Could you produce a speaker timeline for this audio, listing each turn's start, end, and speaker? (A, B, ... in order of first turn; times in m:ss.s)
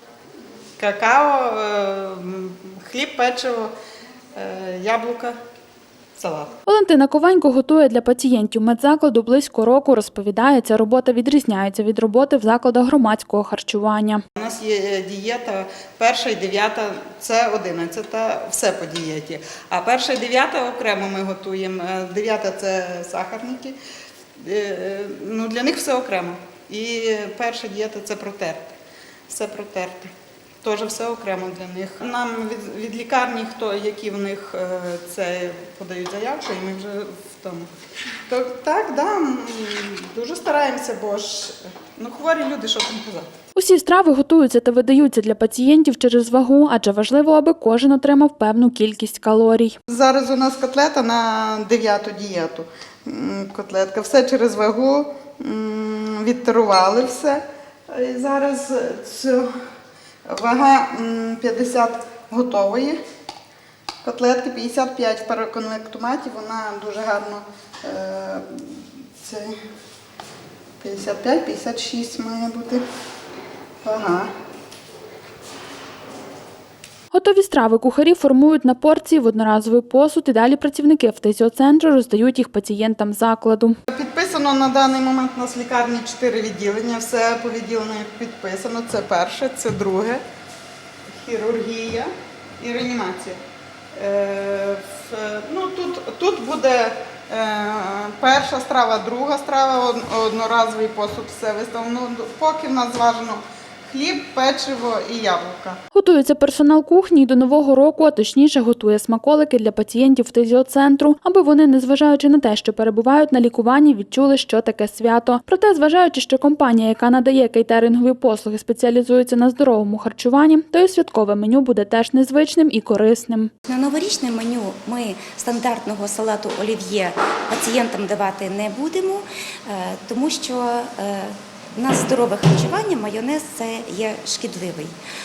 0:00.8-0:03.7 A
0:04.4-0:05.4 A
0:06.2-0:06.5 A
0:06.7-0:14.2 B
0:14.4-0:23.8 A
0:24.4-0:28.7 A
0:29.3-0:30.1 A
0:30.6-0:37.7 A
0:38.3-0:43.3 A
0:43.6-0:49.7 B
0:49.9-0:59.5 A
1:00.3-1:03.0 A
1:04.0-1:09.5 A
1:10.8-1:12.8 A
1:13.8-1:14.3 A
1:17.1-1:23.8 B
1:23.9-1:30.2 A
1:31.2-1:33.4 A
1:34.0-1:45.8 A
1:45.9-2:03.5 B
2:03.7-2:14.9 C